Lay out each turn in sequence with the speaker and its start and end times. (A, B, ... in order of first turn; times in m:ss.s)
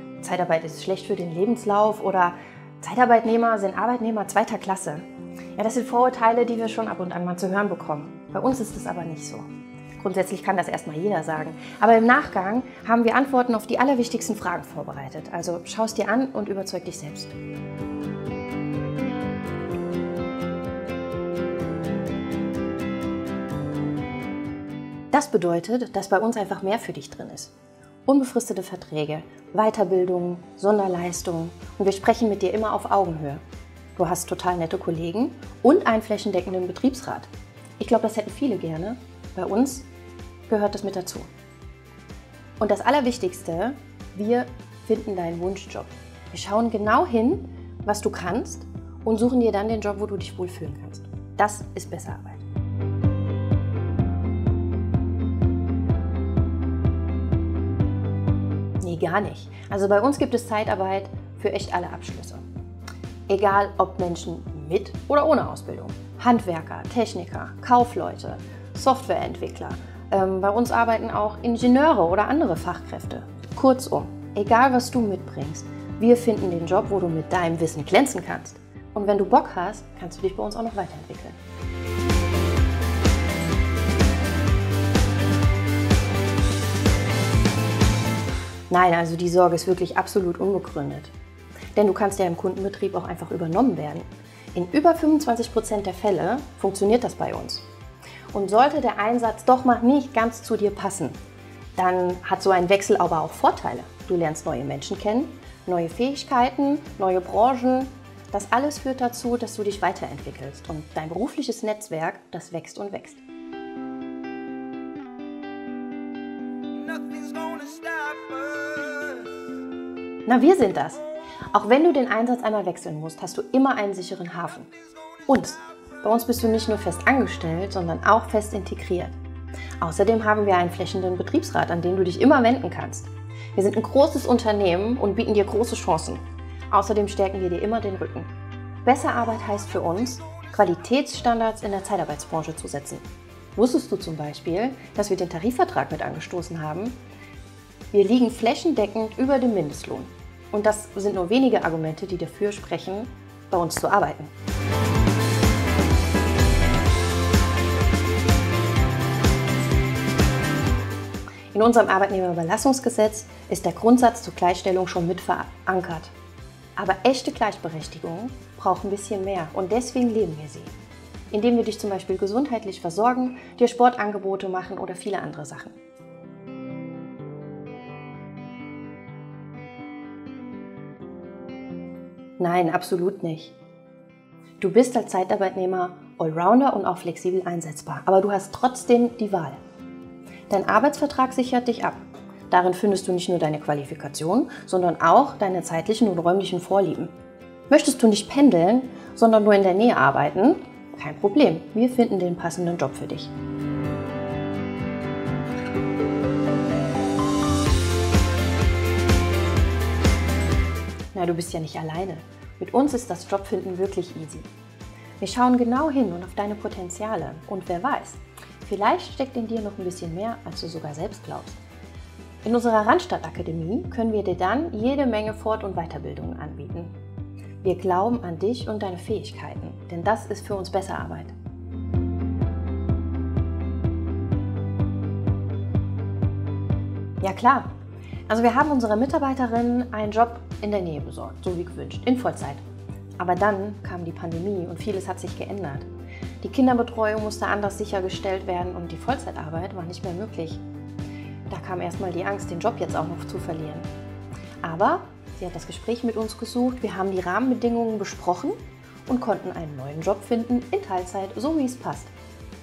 0:00.2-0:05.0 A
0:05.6-0:17.4 A
0:25.1-0:27.5 A
0:28.0-0:33.4 A
0:34.0-0:39.9 A
0:40.5-0:41.3 A
0:42.6-0:52.4 A
0:58.8-1:02.4 A
1:03.3-1:21.4 A
1:28.7-1:31.1 A
1:31.8-1:37.6 A
1:38.3-1:41.2 A
1:41.8-1:53.2 A
2:00.2-2:04.7 A
2:05.2-2:09.2 A
2:09.8-2:18.3 A
2:18.8-2:23.0 A
2:23.6-2:27.0 A
2:27.9-2:34.3 A
2:41.5-2:46.1 A
2:46.8-2:50.8 A
2:51.3-2:55.8 A
3:02.4-3:03.6 A
3:04.6-3:09.6 A
3:10.5-3:17.1 A
3:17.7-3:23.3 A
3:31.1-3:34.5 A
3:35.2-3:41.6 A
3:42.4-3:46.9 A
3:47.6-3:51.3 A
3:57.2-3:57.7 A
3:58.3-4:02.6 A
4:03.2-4:05.9 A
4:06.4-4:10.6 A
4:11.5-4:13.9 A
4:14.6-4:22.1 A